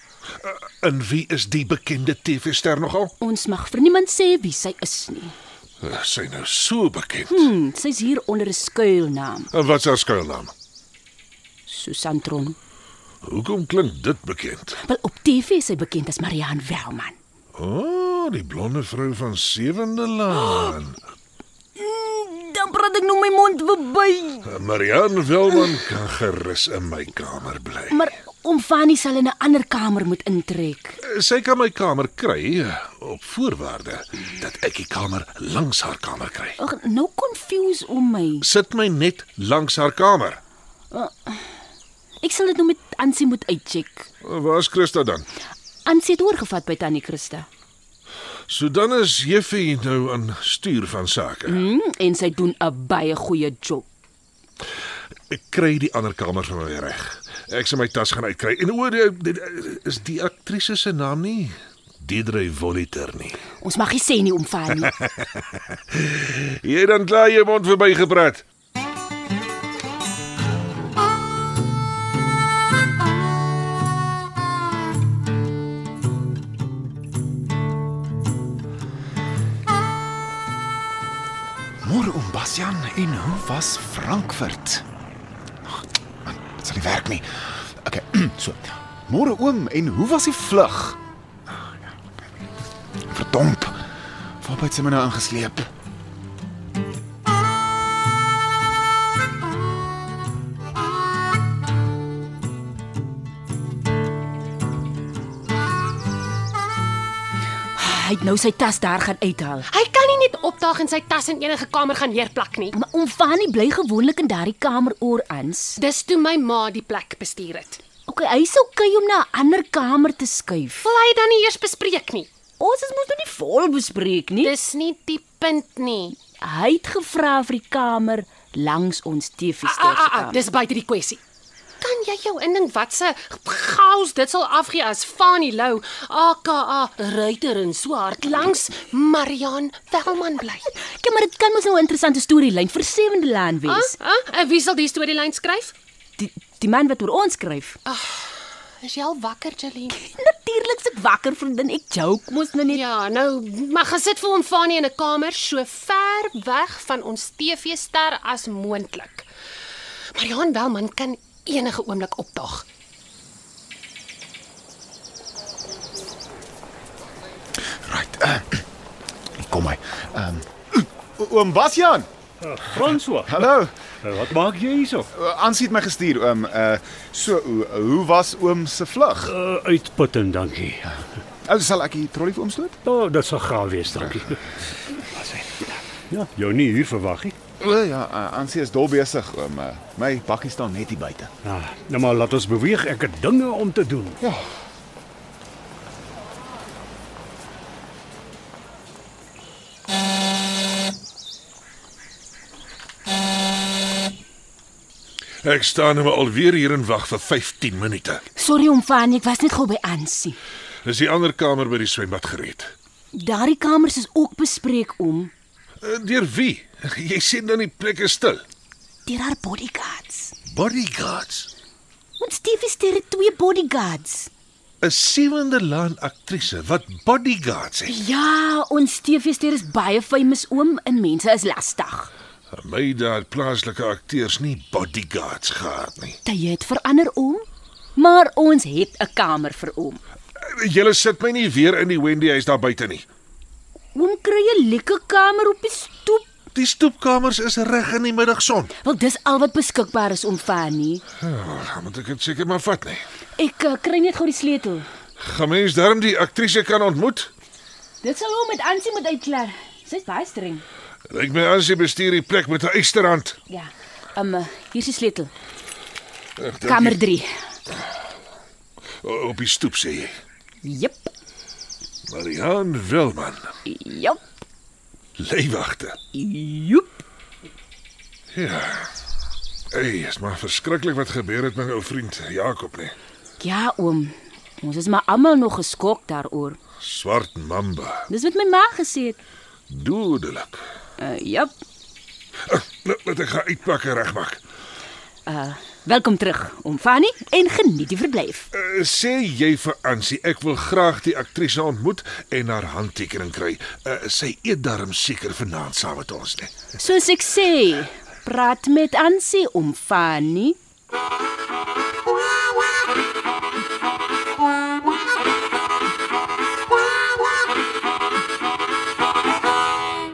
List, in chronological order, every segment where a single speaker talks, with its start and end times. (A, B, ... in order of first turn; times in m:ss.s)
0:00.4-0:03.1 A
0:03.2-0:05.3 B
0:05.8-0:07.5 A
0:07.3-0:09.5 B
0:09.5-0:10.5 A
0:11.7-0:12.6 B
0:13.2-0:14.8 A
0:14.8-0:17.2 B
0:17.5-0:21.0 A
0:21.8-0:24.5 B
0:24.4-0:28.0 A
0:27.9-0:31.0 B
0:31.0-0:36.6 A
0:36.6-0:38.4 B
0:38.4-0:40.4 A
0:40.9-0:41.4 B
0:42.2-0:44.1 B
0:44.2-0:45.2 A
0:45.8-0:47.4 B
0:48.5-0:51.6 A
0:51.5-0:53.8 B
0:55.3-1:03.4 A
1:03.6-1:04.9 B
1:05.9-1:08.4 A
1:21.8-1:24.8 C
1:25.6-1:31.0 C
1:33.1-1:33.9 C
1:34.4-1:35.7 C
1:47.8-1:49.7 B
1:49.7-1:52.7 D
1:52.7-1:55.8 B
1:55.8-1:57.8 D
1:58.1-2:00.8 B
2:00.8-2:02.3 D
2:02.6-2:04.5 B
2:04.4-2:06.1 D
2:06.4-2:10.4 B
2:09.6-2:11.2 D
2:11.8-2:20.7 D
2:20.8-2:23.9 B
2:23.7-2:25.7 D
2:26.2-2:27.8 B
2:27.8-2:29.9 D
2:30.0-2:32.8 B
2:32.7-2:39.3 D
2:40.1-2:42.6 D
2:47.7-2:48.6 C
2:49.3-2:52.1 C
2:52.4-2:53.5 E
2:53.3-2:53.7 C
2:54.0-2:55.1 E
2:55.1-2:59.3 C
2:59.3-3:00.9 E
3:00.9-3:02.8 C
3:02.8-3:04.4 E
3:05.2-3:07.4 E
3:07.6-3:11.3 C
3:11.4-3:14.2 E
3:14.2-3:14.5 C
3:25.4-3:28.2 A
3:28.4-3:30.4 B
3:30.8-3:32.7 A
3:33.1-3:35.3 B
3:35.8-3:38.4 A
3:39.0-3:40.3 B
3:40.5-3:41.5 A
3:42.2-3:44.3 B
3:44.8-3:47.9 A
3:47.9-3:52.1 B
3:52.5-3:56.2 A
3:56.2-3:57.4 B
3:58.0-4:00.0 B
4:00.4-4:03.0 A
4:03.9-4:06.2 B
4:06.5-4:08.7 A
4:08.8-4:11.0 B
4:11.2-4:13.0 A
4:13.4-4:14.8 B
4:15.2-4:17.3 A
4:18.0-4:20.6 B
4:21.1-4:23.4 A
4:23.5-4:25.3 B
4:26.4-4:27.0 A
4:26.6-4:27.3 B
4:29.0-4:30.1 A
4:30.6-4:31.1 B
4:32.1-4:33.4 A
4:33.6-4:34.2 B
4:35.2-4:36.0 A
4:36.1-4:37.0 B
4:38.3-4:38.9 A
4:39.7-4:42.9 A
4:43.4-4:46.6 B
4:46.8-4:48.1 A
4:48.1-4:49.2 B
4:49.7-4:50.6 A
4:51.0-4:51.5 B
4:52.4-4:54.4 A
4:55.2-4:58.5 B
4:58.5-5:06.6 A
5:06.8-5:10.6 B